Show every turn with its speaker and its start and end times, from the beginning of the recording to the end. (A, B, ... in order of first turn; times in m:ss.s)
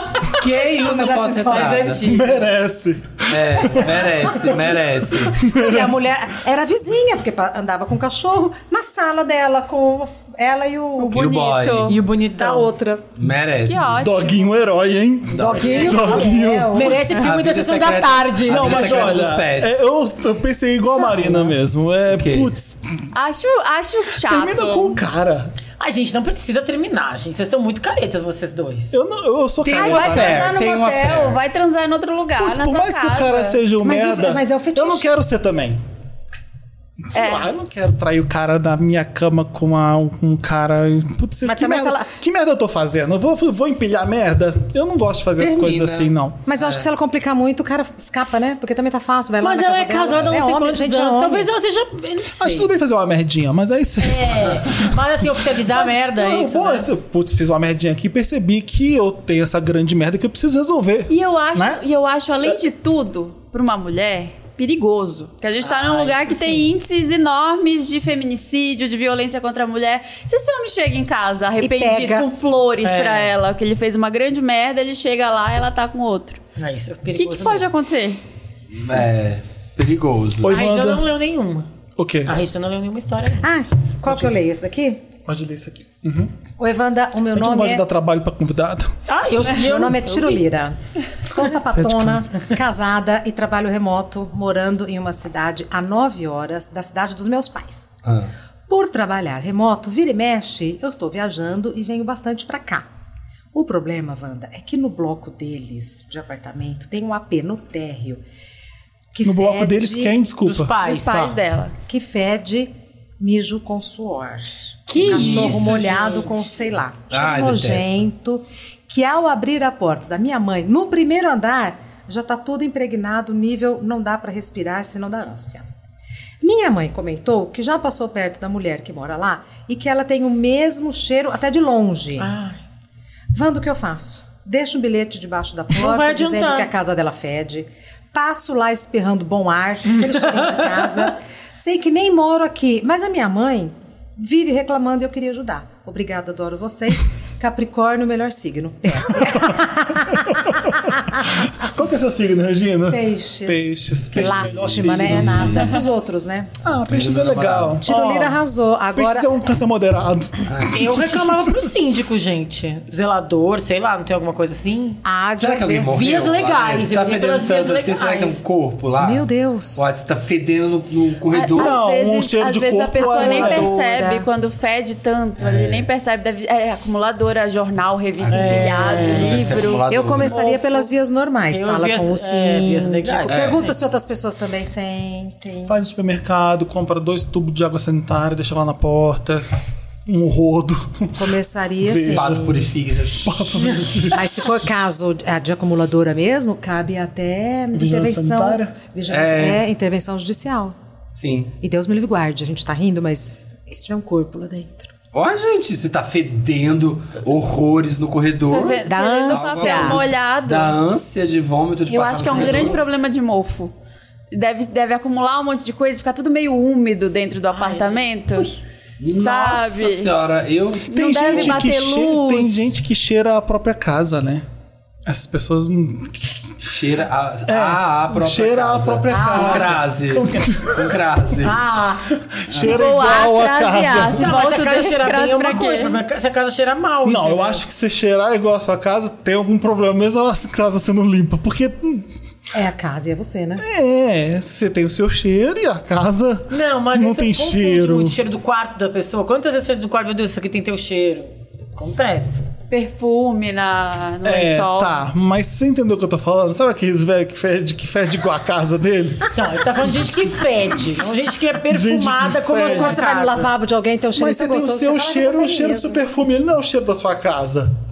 0:00.3-0:02.0 A
0:00.8-0:02.0 B
0:00.8-0:02.4 C
0:02.0-0:06.0 D
0:03.3-0:05.4 A
0:05.4-0:11.2 B
0:11.0-0:12.0 E
0:11.1-0:12.0 A
0:11.9-0:12.7 C
0:12.4-0:13.0 B
0:13.2-0:13.9 A
0:13.7-0:14.5 E
0:14.0-0:17.0 D
0:15.3-0:15.8 A
0:15.4-0:19.2 C
0:15.4-0:17.2 B
0:17.2-0:19.8 A
0:18.5-0:23.1 D
0:22.1-0:22.5 A
0:23.1-0:25.0 E
0:24.2-0:25.5 D
0:25.8-0:28.9 C
0:28.9-0:30.5 D
0:29.6-0:31.4 A
0:29.7-0:33.6 E
0:32.4-0:35.8 D
0:33.8-0:35.1 B
0:37.1-0:46.4 D
0:37.1-0:37.5 E
0:41.4-0:42.1 B
0:45.4-0:46.8 A
0:46.5-0:51.5 B
0:49.4-0:52.7 C
0:52.4-1:01.8 D
0:54.0-0:56.9 C
1:01.1-1:16.4 E
1:05.6-1:06.7 C
1:11.6-1:12.3 B
1:12.8-1:13.3 C
1:16.6-1:17.7 C
1:17.1-1:18.2 E
1:18.7-1:20.6 A
1:20.4-1:21.1 D
1:20.5-1:21.7 C
1:22.0-1:22.4 D
1:22.3-1:23.4 C
1:23.4-1:25.0 B
1:25.2-1:26.3 D
1:26.6-1:27.8 B
1:27.3-1:28.9 D
1:29.1-1:30.4 C
1:29.5-1:37.9 B
1:31.4-1:32.3 D
1:38.7-1:42.9 B
1:43.5-1:48.2 B
1:49.1-1:50.2 B
1:49.2-1:51.3 D
1:50.5-1:51.3 C
1:50.8-1:51.8 E
1:51.9-2:05.7 B
1:54.9-1:56.4 C
1:55.0-1:56.0 A
1:57.1-1:57.9 A
2:06.4-2:12.3 B
2:12.2-2:12.6 C
2:13.3-2:31.2 B
2:15.7-2:16.7 C
2:20.4-2:20.7 C
2:29.2-2:35.7 D
2:32.9-2:36.5 B
2:34.2-2:35.8 A
2:36.6-2:37.9 D
2:36.9-2:37.8 A
2:37.8-2:39.3 B
2:37.9-2:38.4 C
2:39.0-2:41.7 D
2:40.5-2:40.8 A
2:40.7-2:45.0 C
2:45.0-2:46.0 B
2:45.4-2:51.8 A
2:45.9-2:48.4 C
2:49.0-2:49.8 B
2:51.3-2:59.9 E
2:51.5-2:53.8 D
2:53.0-2:54.3 B
2:55.4-2:55.9 A
2:58.2-3:00.4 A
2:58.3-2:59.6 C
2:59.9-3:05.8 B
3:00.2-3:00.9 C
3:01.5-3:03.7 C
3:03.3-3:03.6 A
3:05.7-3:09.5 D
3:10.1-3:11.2 D
3:11.2-3:12.7 B
3:11.8-3:12.6 D
3:12.1-3:13.9 A
3:13.2-3:14.3 D
3:14.1-3:20.8 B
3:17.7-3:18.8 D
3:19.1-3:19.6 A
3:21.1-3:21.5 A
3:21.6-3:24.9 B
3:25.1-3:32.8 A
3:28.5-3:30.8 E
3:28.8-3:30.0 B
3:31.9-3:33.7 E
3:34.3-3:38.5 E
3:37.5-3:38.5 C
3:39.0-3:41.6 A
3:39.1-3:40.1 E
3:40.9-3:42.7 E
3:40.9-3:44.4 D
3:45.1-3:46.8 D
3:46.7-3:51.6 A
3:47.5-3:51.0 D
3:49.1-3:50.4 C
3:51.4-3:52.1 C
3:52.2-3:54.3 D
3:52.6-3:56.0 E
3:54.1-3:57.6 C
3:57.0-4:02.1 D
4:02.5-4:03.6 B
4:03.6-4:08.2 D
4:06.5-4:12.4 C
4:12.7-4:15.0 E
4:14.2-4:19.4 D
4:19.4-4:23.5 C
4:21.6-4:23.0 D
4:22.6-4:26.1 B
4:24.2-4:27.7 D